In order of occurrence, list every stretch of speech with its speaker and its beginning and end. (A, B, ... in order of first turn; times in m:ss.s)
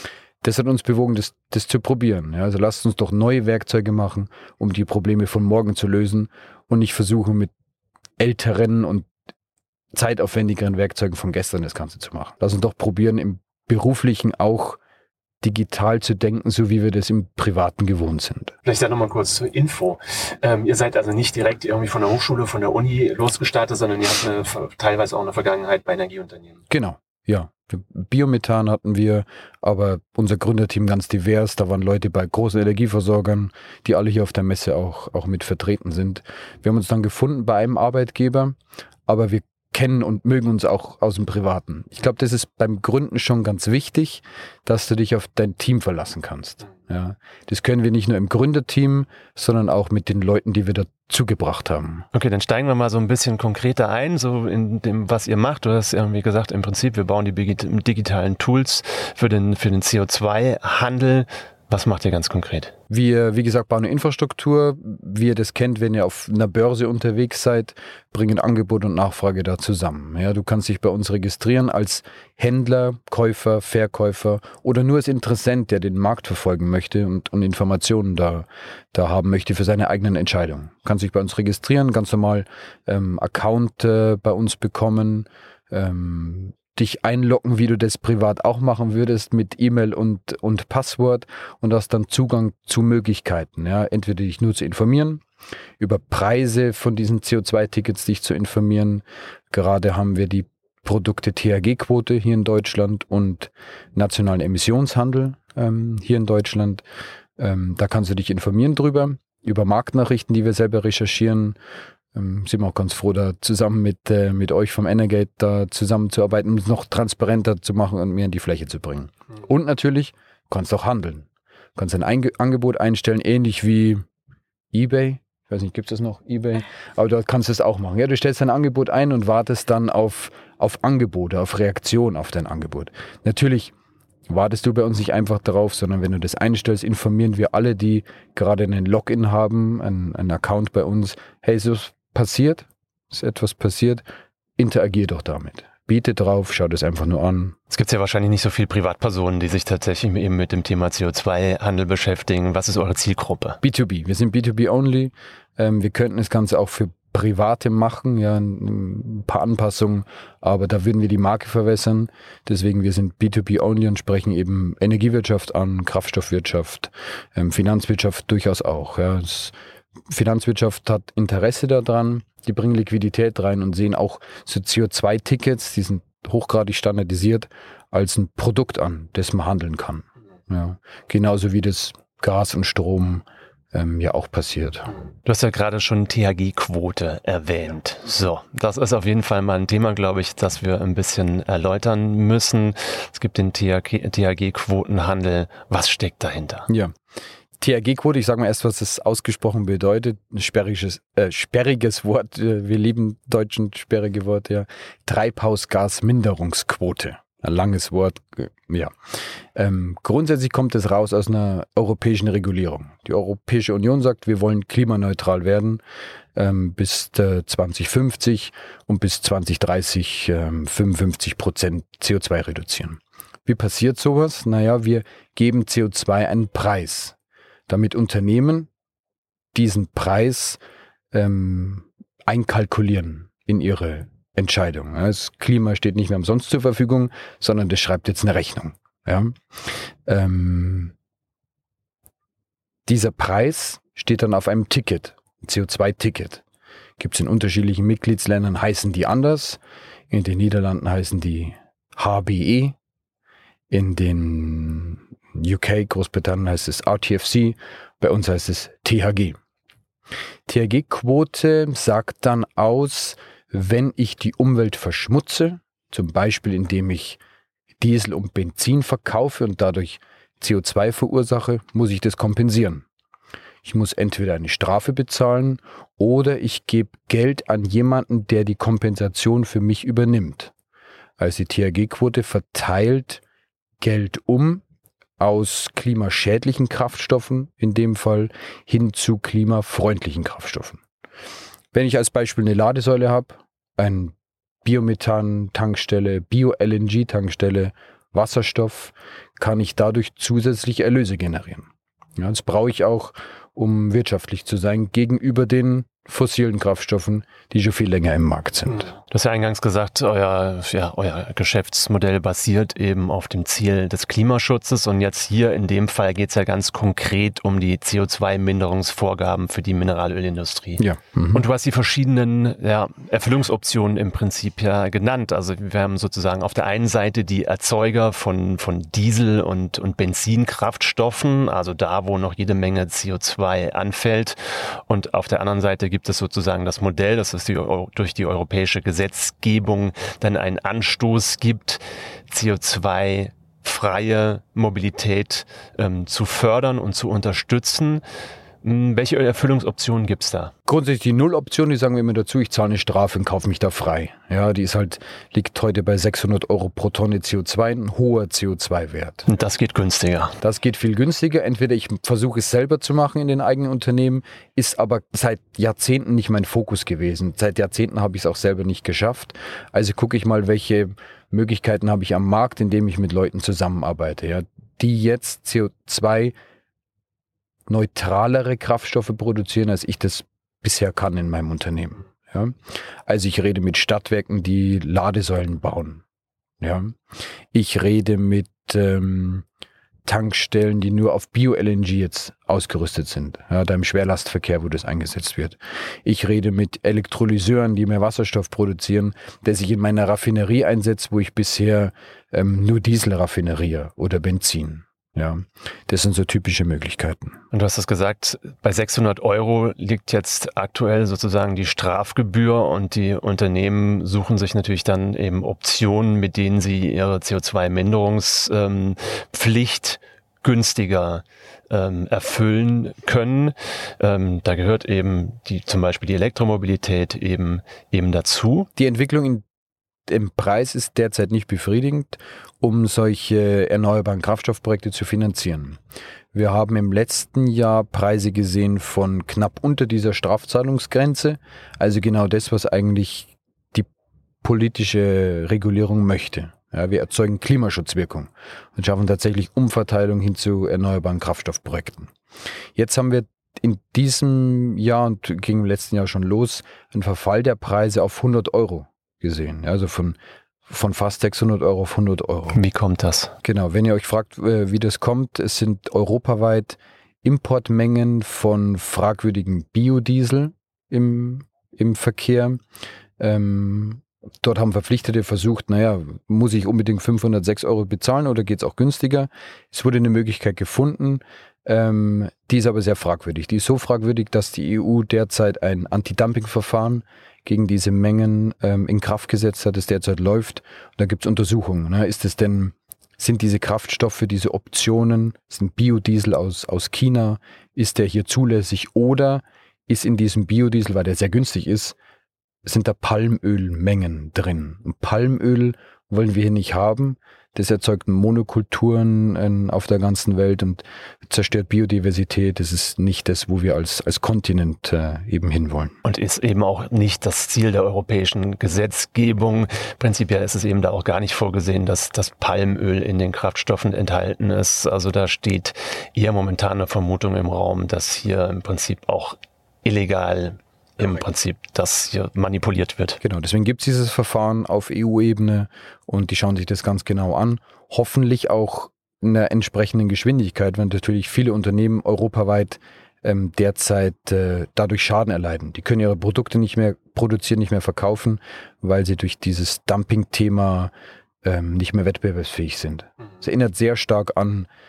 0:00.4-0:07.5 A
0:08.2-0:09.1 A
0:09.9-0:14.8 A
0:15.4-0:18.6 A
0:18.6-0:26.6 B
0:26.7-0:38.6 A
0:39.1-0:52.1 A
0:52.1-1:02.7 B
1:02.9-1:35.2 A
1:35.8-1:46.8 A
1:47.4-1:51.6 A
1:52.1-2:04.1 A
2:04.7-2:13.7 A
2:14.3-2:24.0 A
2:24.6-2:27.6 A
2:27.7-2:33.6 B
2:33.6-2:49.6 A
2:50.1-3:04.9 A
3:05.3-3:16.7 B
3:16.7-3:16.9 A
3:17.6-3:28.9 A
3:29.6-3:35.8 A
3:36.4-3:47.2 A
3:47.7-3:48.7 A
3:49.5-3:50.6 A
3:51.1-3:59.4 A
4:00.1-4:00.9 A
4:02.9-4:06.4 A
4:07.0-4:12.8 A
4:13.7-4:19.4 A
4:20.5-4:27.2 A
4:27.8-4:32.9 A
4:33.6-4:40.5 A
4:41.2-4:43.2 A
4:43.8-4:44.6 A
4:45.2-4:50.8 A
4:51.7-5:08.9 A
5:08.8-5:48.0 B
5:20.8-5:21.4 A
5:48.6-5:50.5 B
5:50.7-5:59.3 A
5:59.3-6:00.4 B
6:00.4-6:16.4 A
6:17.7-6:26.0 A
6:26.6-6:27.0 A
6:27.5-6:29.4 A
6:30.0-6:47.4 A
6:47.5-7:08.7 B
7:08.8-7:09.4 A
7:10.1-7:15.8 A
7:16.3-7:23.9 A
7:24.4-7:32.1 A
7:32.8-7:42.6 A
7:42.5-7:43.3 B
7:43.4-7:52.6 A
7:53.2-8:22.0 A
8:22.6-8:36.0 A
8:36.0-8:53.2 B
8:53.2-9:10.9 A
9:11.4-9:14.7 A